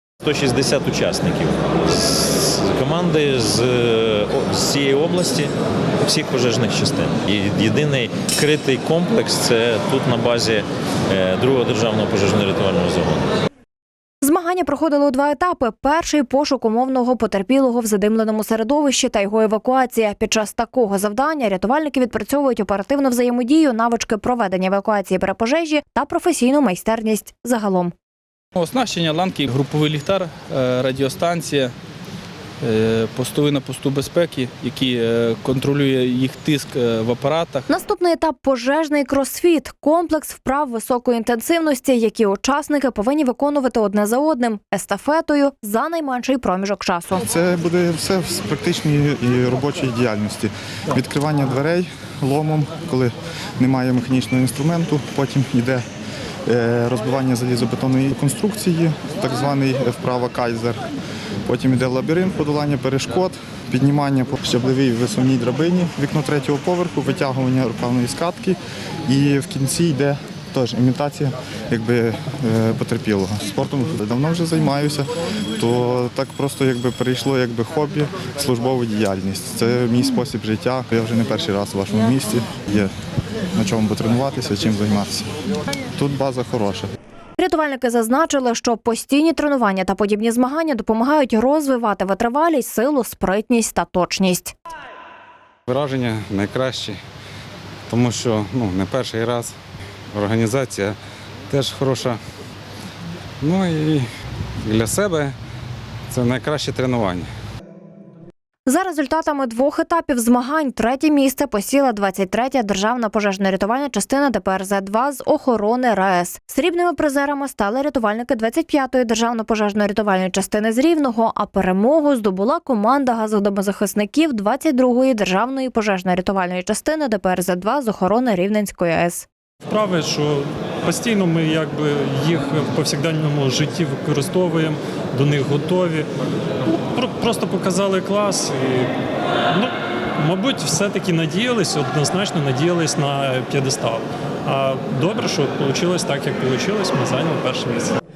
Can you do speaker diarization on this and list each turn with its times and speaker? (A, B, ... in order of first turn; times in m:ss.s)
0:00.2-0:13.3 A
0:14.2-0:27.9 B
0:28.5-0:31.7 C
0:32.6-0:37.7 C
0:37.7-0:47.2 B
0:47.2-0:55.8 D
0:56.4-1:00.8 D
1:01.4-1:22.9 D
1:23.5-1:25.3 D
1:25.9-1:26.9 D
1:27.4-1:34.5 B
1:35.7-1:37.0 E
1:37.9-1:39.5 E
1:40.1-1:41.0 E
1:41.5-1:42.2 E
1:43.4-1:44.1 E
1:44.6-1:45.3 E
1:46.1-1:47.3 E
1:48.7-2:09.3 B
2:09.7-2:16.1 F
2:16.8-2:18.9 F
2:19.5-2:28.0 F